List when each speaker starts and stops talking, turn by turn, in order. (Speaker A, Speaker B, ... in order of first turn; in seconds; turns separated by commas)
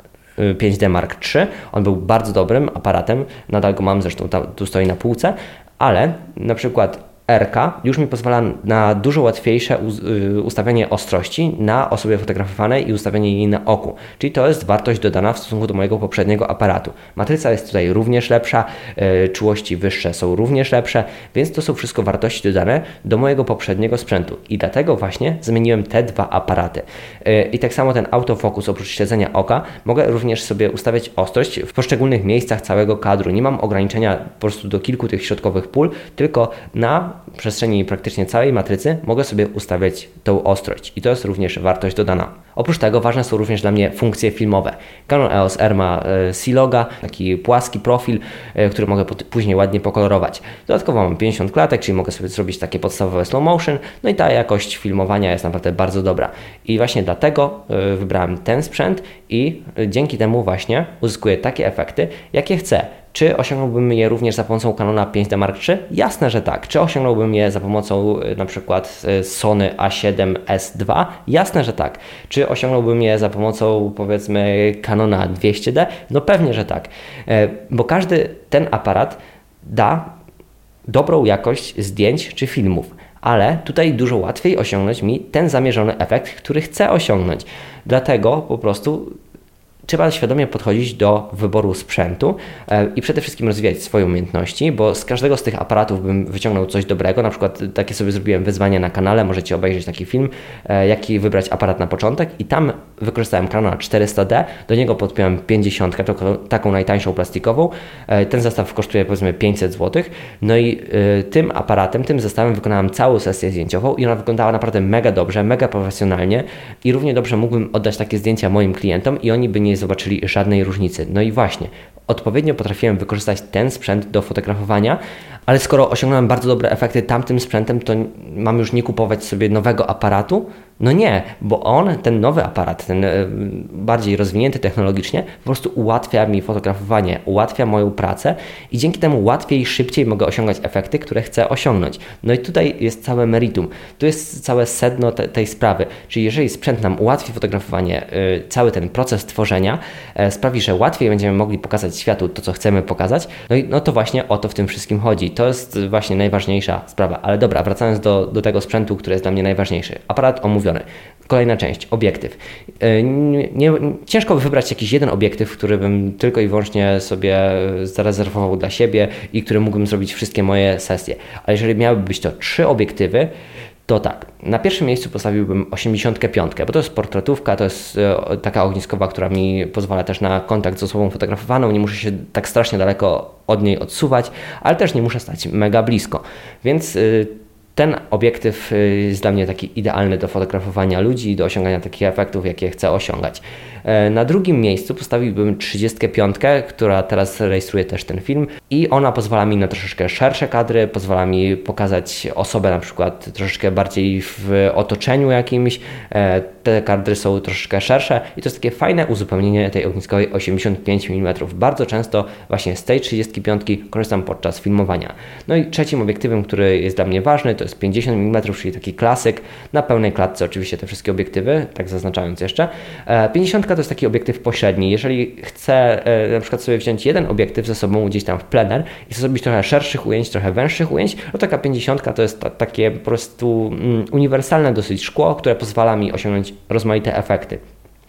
Speaker A: 0.4-80.1, Speaker A: 80.9-89.2, Speaker A: 89.9-173.3, Speaker A: 173.9-237.6